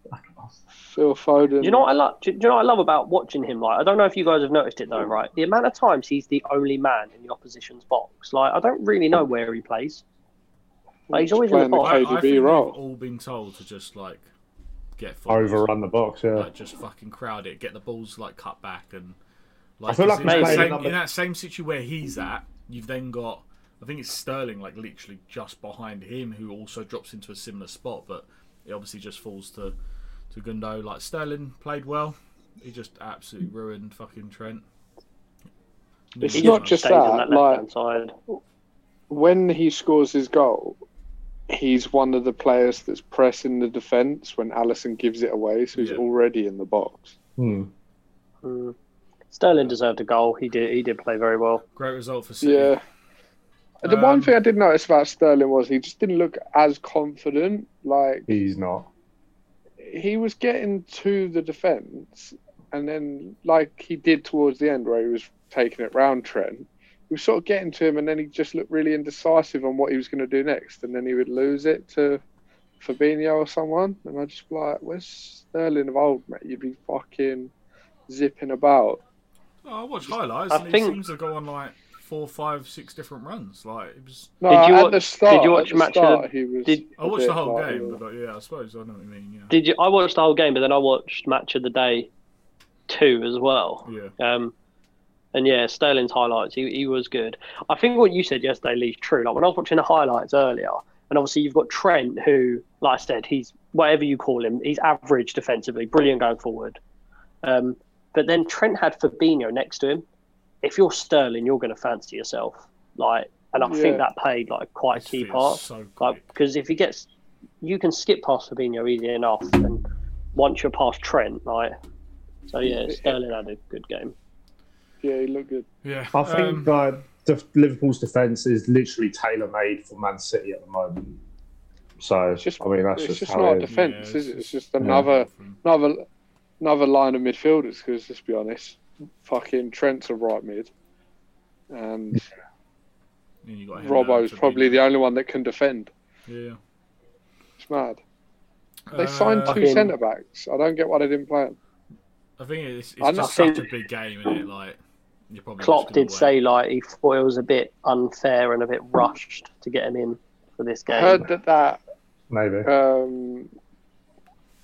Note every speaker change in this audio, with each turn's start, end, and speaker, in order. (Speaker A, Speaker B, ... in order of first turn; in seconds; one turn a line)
Speaker A: 0.1-0.5
Speaker B: 0.9-1.9
Speaker C: 1.6-10.0
Speaker B: 11.1-12.8
Speaker C: 11.1-12.1
Speaker D: 11.8-14.3
Speaker D: 15.0-15.7
Speaker A: 15.3-16.5
Speaker D: 16.3-19.2
Speaker D: 19.8-29.8
Speaker A: 19.9-21.0
Speaker C: 20.2-20.8
Speaker D: 30.3-34.6
Speaker D: 36.1-37.1
Speaker B: 36.2-37.6
Speaker C: 36.3-38.1
Speaker B: 39.1-40.8
Speaker B: 41.5-47.2
Speaker D: 45.8-46.0
Speaker A: 47.4-47.7
Speaker C: 48.4-48.8
Speaker C: 49.3-51.6
Speaker D: 51.8-52.8
Speaker B: 52.4-52.8
Speaker B: 53.8-58.4
Speaker D: 53.8-54.4
Speaker A: 58.3-58.9
Speaker B: 59.8-72.2
Speaker B: 72.8-77.5
Speaker B: 78.1-79.0
Speaker D: 79.6-84.3
Speaker C: 80.5-81.0
Speaker B: 84.4-88.0
Speaker C: 84.5-86.8
Speaker D: 87.0-89.5
Speaker C: 89.5-92.1
Speaker C: 92.9-94.5
Speaker D: 93.8-94.1
Speaker C: 95.3-106.8
Speaker C: 107.4-110.0
Speaker C: 110.6-117.1
Speaker B: 113.7-114.0
Speaker D: 114.9-116.2
Speaker C: 117.6-119.8
Speaker C: 120.3-121.8
Speaker C: 122.5-124.1
Speaker B: 122.9-123.1
Speaker B: 125.0-125.7
Speaker D: 125.8-126.8
Speaker A: 126.1-131.2
Speaker A: 132.0-133.7
Speaker B: 132.4-136.1
Speaker D: 133.7-135.6
Speaker A: 134.8-135.1
Speaker B: 136.6-140.7
Speaker B: 141.7-142.3
Speaker D: 143.4-144.8
Speaker B: 143.8-145.9
Speaker D: 146.3-146.6
Speaker B: 147.6-148.0
Speaker D: 148.9-149.7
Speaker B: 148.9-151.6
Speaker C: 149.5-149.9
Speaker D: 152.4-154.8
Speaker B: 153.0-153.7
Speaker C: 153.2-153.6
Speaker D: 155.3-156.4
Speaker C: 155.6-161.3
Speaker B: 160.9-161.8
Speaker A: 162.3-162.7
Speaker B: 162.7-163.5